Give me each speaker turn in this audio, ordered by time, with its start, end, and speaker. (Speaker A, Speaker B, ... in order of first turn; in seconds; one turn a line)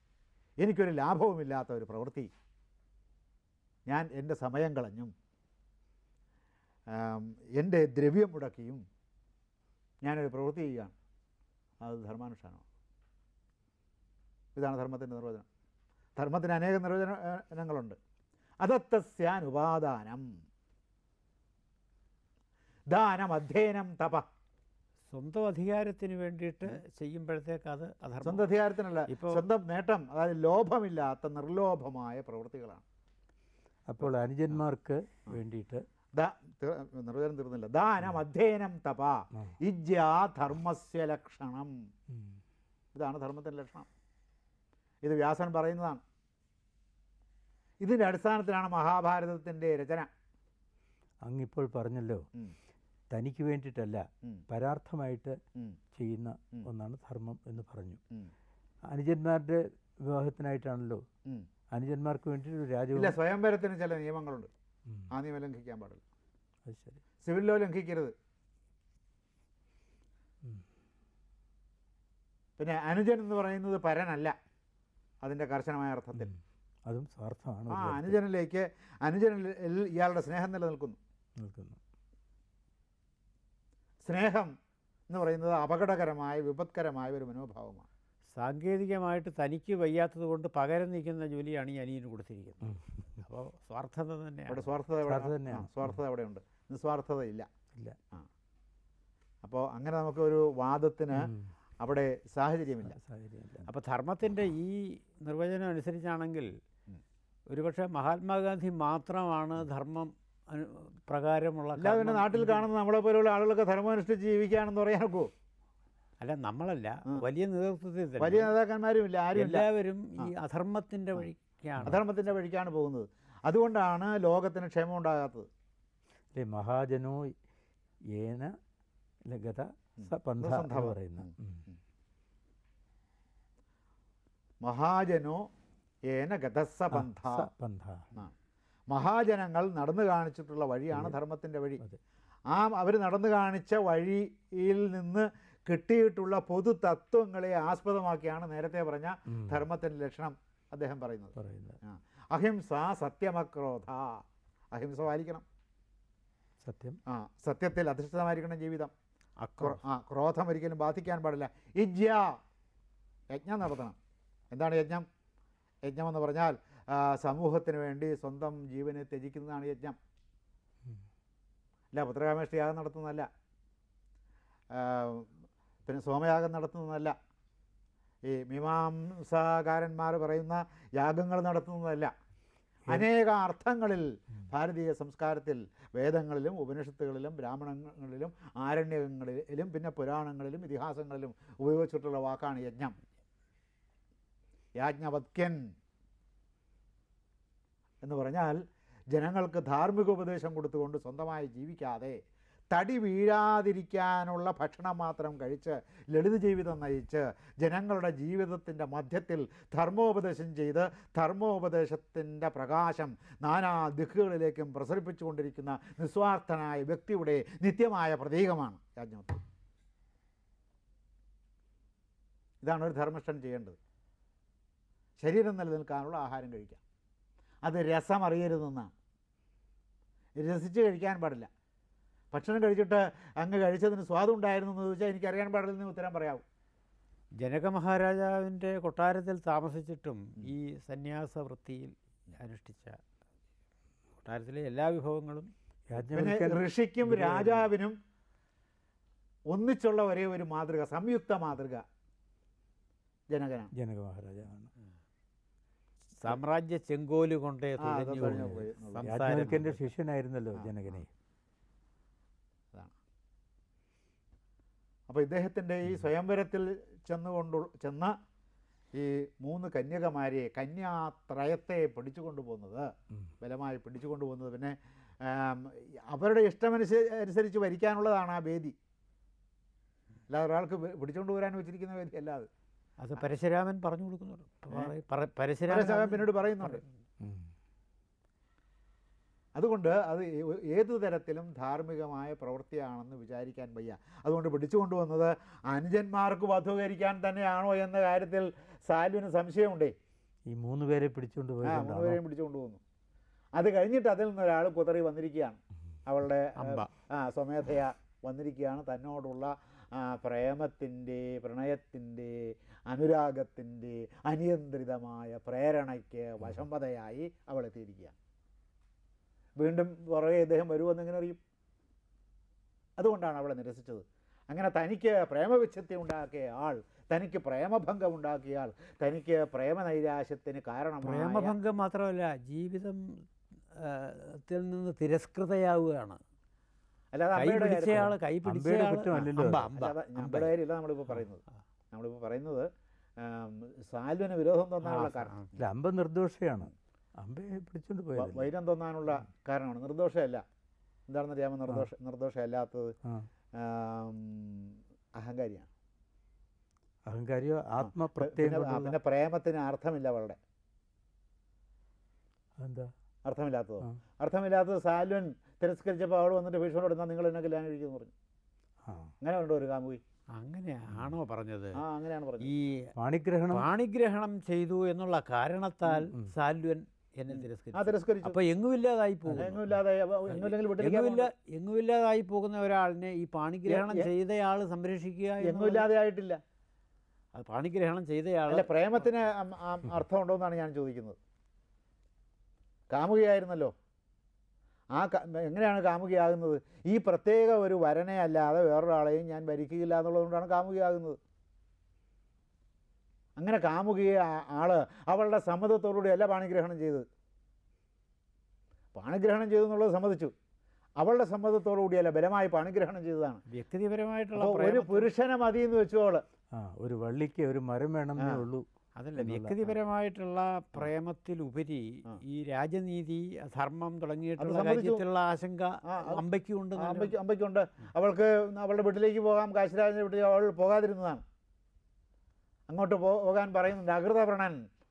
Speaker A: 0.6-2.3
Speaker A: 3.9-5.1
Speaker A: 6.9-8.8
Speaker A: 10.0-10.9
Speaker A: 11.8-12.6
Speaker A: 14.6-15.5
Speaker A: 16.2-18.0
Speaker A: 18.6-20.3
Speaker A: 22.9-24.3
Speaker B: 25.1-28.5
Speaker A: 28.2-32.8
Speaker B: 29.1-29.4
Speaker C: 33.9-35.8
Speaker A: 36.2-41.7
Speaker C: 42.1-42.4
Speaker A: 43.0-43.9
Speaker A: 45.0-46.0
Speaker A: 47.8-50.1
Speaker C: 51.2-52.2
Speaker C: 53.1-55.4
Speaker C: 56.0-58.0
Speaker C: 58.9-61.0
Speaker C: 61.7-63.1
Speaker A: 63.0-64.5
Speaker A: 65.1-66.0
Speaker C: 66.7-67.0
Speaker A: 67.2-68.1
Speaker A: 72.6-74.3
Speaker A: 75.2-76.3
Speaker C: 76.9-78.2
Speaker A: 77.7-81.0
Speaker C: 81.4-81.8
Speaker A: 84.0-84.5
Speaker A: 85.1-87.9
Speaker B: 88.3-94.7
Speaker C: 92.6-93.2
Speaker A: 94.5-97.5
Speaker C: 95.0-96.0
Speaker A: 99.4-103.0
Speaker C: 101.1-101.5
Speaker C: 102.9-103.7
Speaker B: 103.7-106.5
Speaker B: 107.5-112.7
Speaker A: 111.8-115.3
Speaker B: 116.2-118.5
Speaker A: 118.2-119.7
Speaker B: 119.3-122.0
Speaker A: 121.8-125.5
Speaker C: 126.3-127.3
Speaker C: 128.2-128.5
Speaker C: 129.3-131.6
Speaker A: 130.0-131.8
Speaker A: 134.6-135.5
Speaker A: 136.1-137.5
Speaker C: 136.9-138.1
Speaker A: 138.9-141.8
Speaker C: 140.9-141.2
Speaker A: 142.5-155.4
Speaker C: 149.3-149.6
Speaker C: 151.4-151.8
Speaker C: 156.6-157.0
Speaker A: 157.1-158.9
Speaker B: 159.4-159.8
Speaker A: 159.6-162.4
Speaker A: 163.3-164.0
Speaker A: 164.5-165.1
Speaker A: 165.8-170.0
Speaker A: 171.9-173.3
Speaker A: 174.7-175.3
Speaker A: 175.9-177.2
Speaker A: 178.3-182.1
Speaker A: 182.9-192.9
Speaker A: 194.8-195.6
Speaker A: 198.0-198.6
Speaker A: 199.1-202.2
Speaker A: 202.7-219.4
Speaker A: 222.6-223.8
Speaker A: 225.2-226.8
Speaker A: 227.6-228.9
Speaker A: 230.4-231.5
Speaker A: 232.3-236.4
Speaker B: 237.4-243.0
Speaker B: 244.2-245.5
Speaker C: 245.9-247.7
Speaker A: 246.1-248.0
Speaker A: 249.5-251.8
Speaker A: 253.3-253.7
Speaker C: 253.8-254.7
Speaker B: 256.2-259.8
Speaker A: 257.8-259.6
Speaker C: 258.2-261.1
Speaker A: 260.6-261.0
Speaker A: 265.1-268.1
Speaker A: 268.9-278.8
Speaker A: 280.3-282.5
Speaker B: 283.0-286.9
Speaker A: 285.7-286.8
Speaker C: 287.2-287.5
Speaker A: 289.6-299.9
Speaker C: 300.5-302.2
Speaker A: 301.6-302.8
Speaker A: 303.6-318.1
Speaker B: 306.6-306.9
Speaker A: 319.6-321.4
Speaker A: 323.0-331.6
Speaker B: 331.0-336.2
Speaker A: 337.1-338.1
Speaker B: 337.3-340.6
Speaker C: 338.4-339.7
Speaker A: 339.7-341.4
Speaker A: 341.9-342.7
Speaker A: 343.2-345.4
Speaker B: 344.8-345.6
Speaker C: 345.6-348.5
Speaker A: 348.1-350.4
Speaker A: 351.1-352.9
Speaker A: 353.6-355.7
Speaker C: 357.1-358.9
Speaker A: 357.8-360.4
Speaker C: 362.6-362.9
Speaker A: 363.2-368.1
Speaker C: 368.9-369.1
Speaker A: 369.2-370.0
Speaker B: 370.4-371.8
Speaker A: 371.8-372.5
Speaker B: 372.4-372.9
Speaker C: 373.0-373.7
Speaker B: 373.5-379.7
Speaker A: 377.3-378.4
Speaker A: 379.3-381.3
Speaker B: 380.3-385.9
Speaker A: 383.7-384.1
Speaker A: 385.4-386.4
Speaker B: 387.3-389.2
Speaker A: 388.5-391.2
Speaker A: 392.9-393.7
Speaker A: 394.9-401.2
Speaker A: 403.4-407.1
Speaker A: 408.9-410.3
Speaker A: 411.0-413.4
Speaker B: 413.5-415.1
Speaker A: 414.4-416.2
Speaker C: 416.5-418.6
Speaker A: 418.2-418.4
Speaker B: 419.0-427.1
Speaker C: 419.2-419.8
Speaker A: 424.4-425.0
Speaker A: 425.9-426.2
Speaker A: 426.8-431.2
Speaker A: 432.7-434.6